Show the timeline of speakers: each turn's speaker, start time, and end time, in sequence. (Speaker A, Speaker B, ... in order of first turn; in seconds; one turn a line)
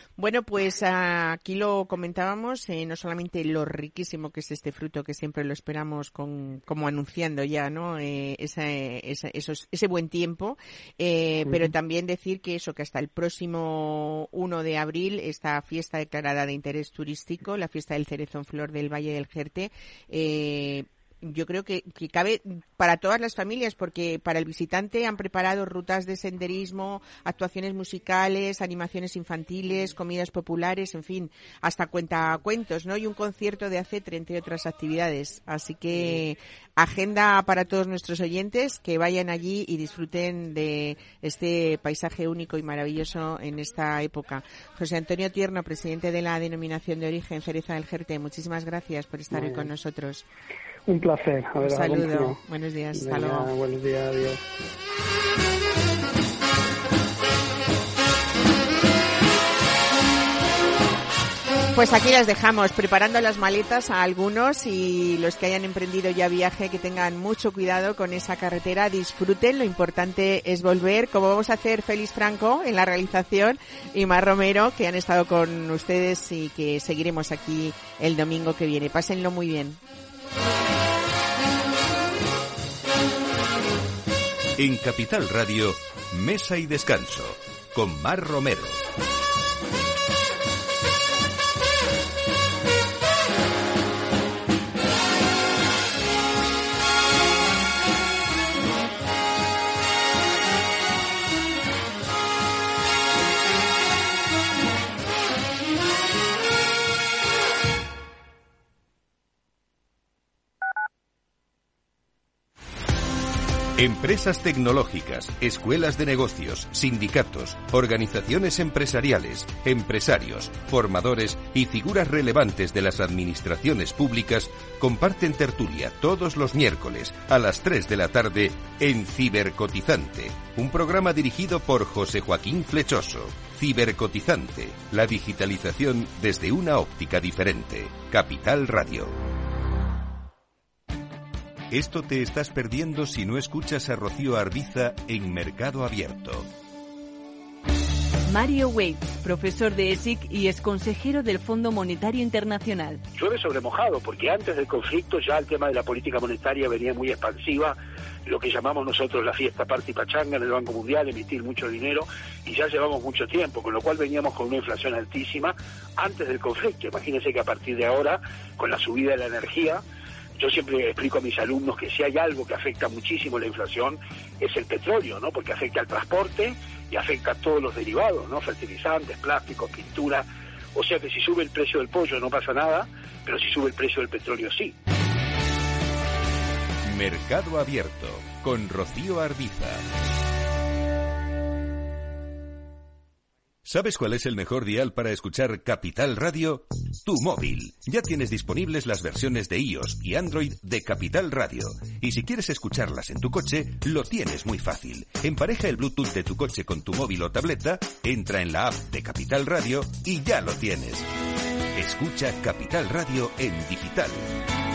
Speaker A: 0.2-50.2
Speaker B: 49.3-49.7
Speaker B: 50.9-52.4
Speaker A: 51.6-53.5
Speaker B: 52.9-54.4
Speaker A: 61.7-79.8
Speaker C: 84.6-88.8
Speaker C: 113.8-139.1
Speaker C: 141.7-146.5
Speaker D: 148.2-153.0
Speaker E: 153.1-169.8
Speaker E: 170.4-184.7
Speaker C: 186.8-189.8
Speaker C: 193.6-211.1
Speaker C: 211.7-214.3